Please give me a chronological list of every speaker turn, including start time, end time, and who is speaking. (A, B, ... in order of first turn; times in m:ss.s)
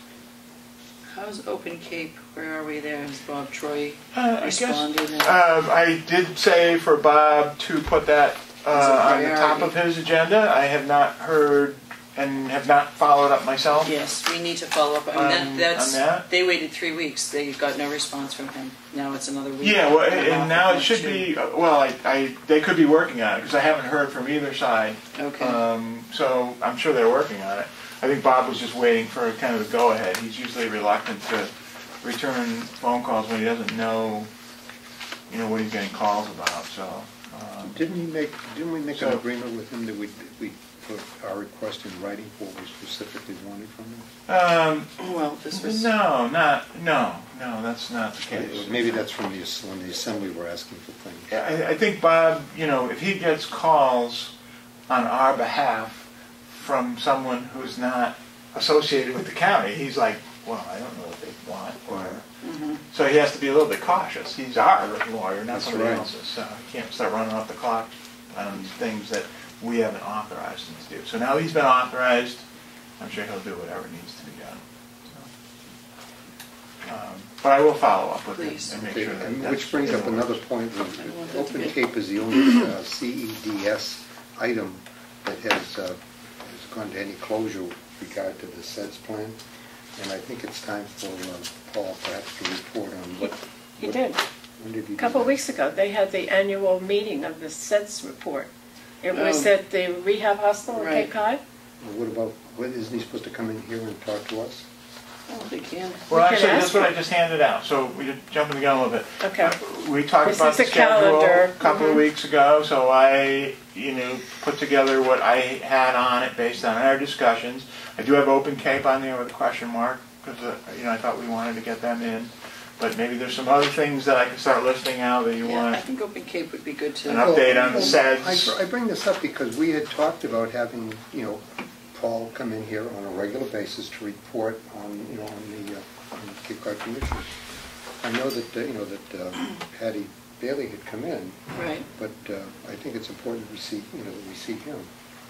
0:01.1-0:05.4 A
0:04.1-0:13.9 B
0:08.7-0:09.8 A
0:13.8-0:21.3 A
0:15.1-0:16.3 B
0:19.6-0:34.3 B
0:25.2-0:25.6 A
0:35.3-0:37.8 B
0:37.6-0:44.1 C
0:38.9-0:39.2 B
0:44.3-0:44.9 B
0:45.0-0:45.9 A
0:45.5-0:49.0 B
0:48.3-0:51.3 C
0:51.3-0:54.3 B
0:54.9-1:02.2 B
1:01.9-1:02.2 C
1:02.4-1:02.8 A
1:02.9-1:12.4 B
1:05.5-1:06.1 C
1:13.0-1:15.3 B
1:16.8-1:20.4 B
1:18.4-1:18.7 A
1:18.7-1:29.4 C
1:20.8-1:21.8 A
1:30.0-1:35.4 C
1:33.8-1:34.2 D
1:35.0-1:38.5 D
1:39.0-1:41.4 D
1:39.1-1:39.5 A
1:40.7-1:41.1 A
1:41.8-1:44.6 C
1:45.3-1:46.1 A
1:46.1-2:05.8 B
1:46.1-1:47.0 D
1:49.2-1:49.6 D
1:50.2-1:52.0 D
2:05.4-2:08.0 A
2:07.0-2:08.6 B
2:07.2-2:17.3 C
2:18.0-2:21.4 C
2:21.6-2:21.9 A
2:22.0-2:24.9 C